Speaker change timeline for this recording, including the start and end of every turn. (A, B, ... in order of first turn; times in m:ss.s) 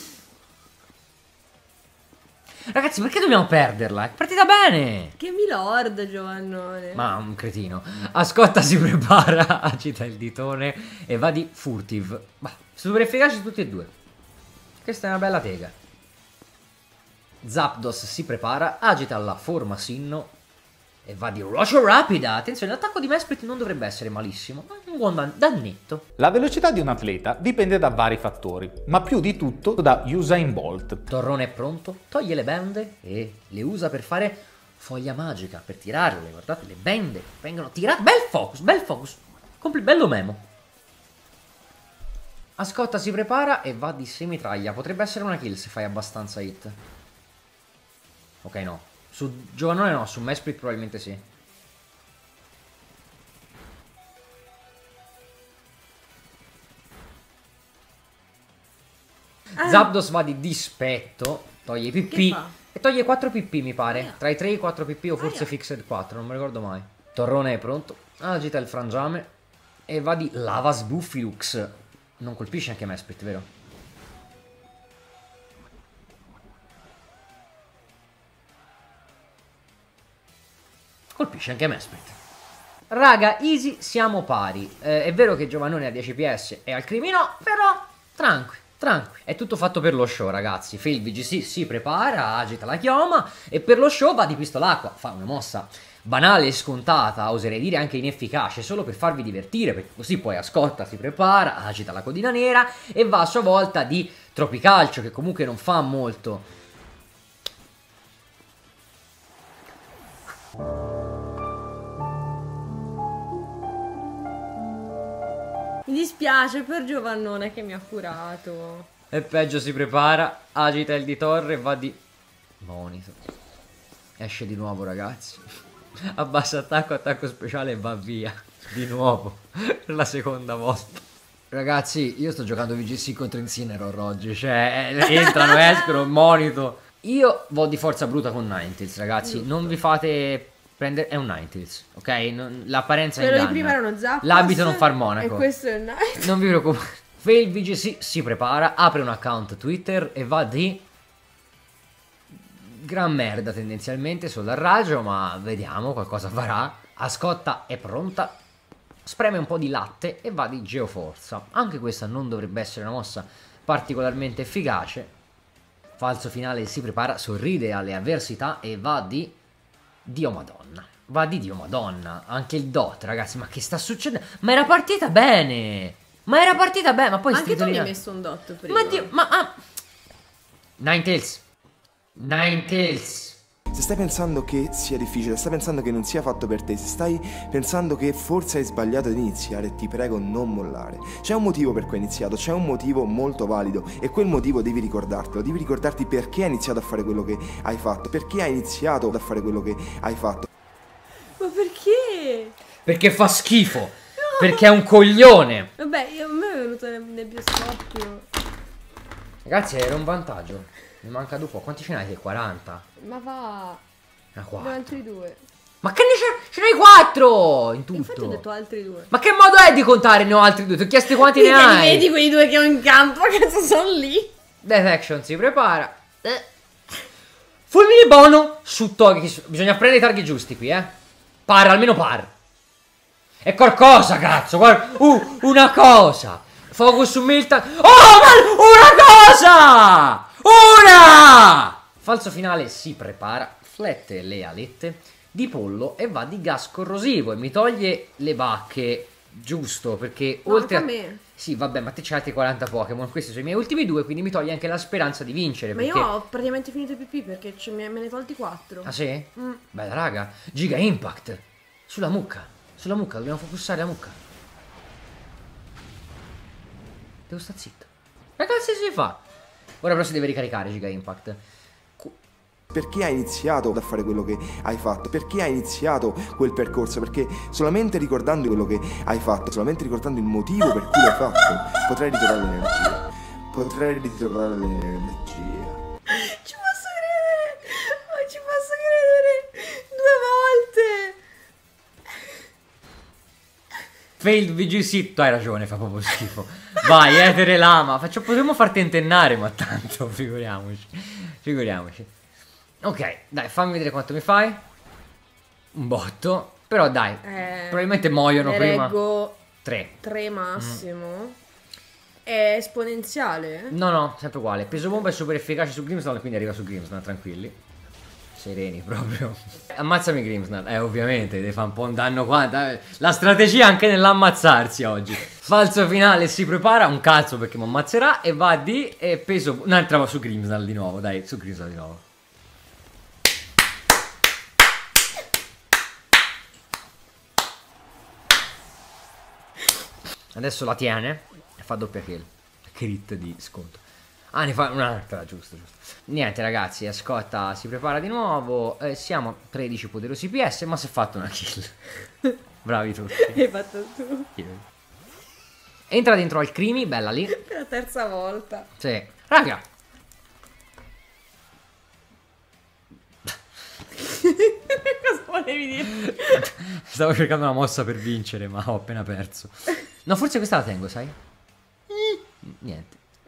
0:02.7-0:05.1 A
0:05.2-0:07.0 B
0:06.9-0:13.9 A
0:14.8-0:15.7 A
0:17.4-0:20.3 A
0:21.0-0:26.0 A
0:26.2-0:31.0 C
0:31.1-0:40.4 A
0:42.6-0:46.8 A
0:48.4-0:51.2 A
0:59.6-1:09.3 A
0:59.6-0:59.9 B
1:02.1-1:02.5 B
1:05.2-1:05.5 B
1:09.9-1:13.5 A
1:21.1-1:22.2 A
1:22.9-1:46.4 A
1:55.8-1:58.9 B
1:59.1-2:02.0 A
2:02.6-2:03.2 A
2:04.2-2:11.0 A
2:11.5-2:25.4 A
2:15.2-2:15.9 B
2:23.2-2:26.3 B
2:26.2-2:30.8 A
2:32.5-2:38.4 A
2:39.0-2:45.1 A
2:46.0-2:49.4 A
2:50.0-2:57.9 A
2:57.3-2:59.1 B
2:58.7-2:59.6 A
3:00.8-3:01.4 A
3:02.2-3:03.4 A
3:03.7-3:20.5 D
3:21.4-3:22.5 B
3:22.8-3:25.7 A
3:24.2-3:24.7 B
3:25.8-3:28.3 B
3:29.4-3:32.8 A
3:33.0-3:33.8 B
3:34.3-3:34.8 A
3:34.6-3:35.4 B
3:35.8-3:38.4 A
3:37.9-3:39.1 B
3:39.1-3:42.0 A
3:41.1-3:44.3 B
3:44.6-3:46.4 A
3:47.7-3:50.9 A
3:51.5-3:52.3 A
3:53.4-4:16.1 A
4:10.4-4:11.2 B
4:15.7-4:19.6 B
4:18.8-4:24.2 A
4:27.3-4:29.2 A
4:29.8-4:31.4 A
4:32.7-4:45.8 D
4:46.1-4:51.2 B
4:54.2-5:02.1 A
5:02.8-5:04.6 A
5:05.7-5:08.9 A
5:07.2-5:09.4 B
5:09.6-5:09.9 A
5:10.0-5:11.4 B
5:10.6-5:10.8 A
5:12.2-5:13.7 B
5:13.7-5:17.6 A
5:18.4-5:32.0 A
5:40.3-5:51.9 A
5:52.6-5:53.4 A
5:53.2-5:54.3 B
5:54.4-5:54.6 A
5:55.9-5:57.3 A
5:57.3-5:58.7 B
5:58.8-5:59.6 A
6:04.0-6:06.4 B
6:05.8-6:11.2 A
6:11.9-6:13.0 A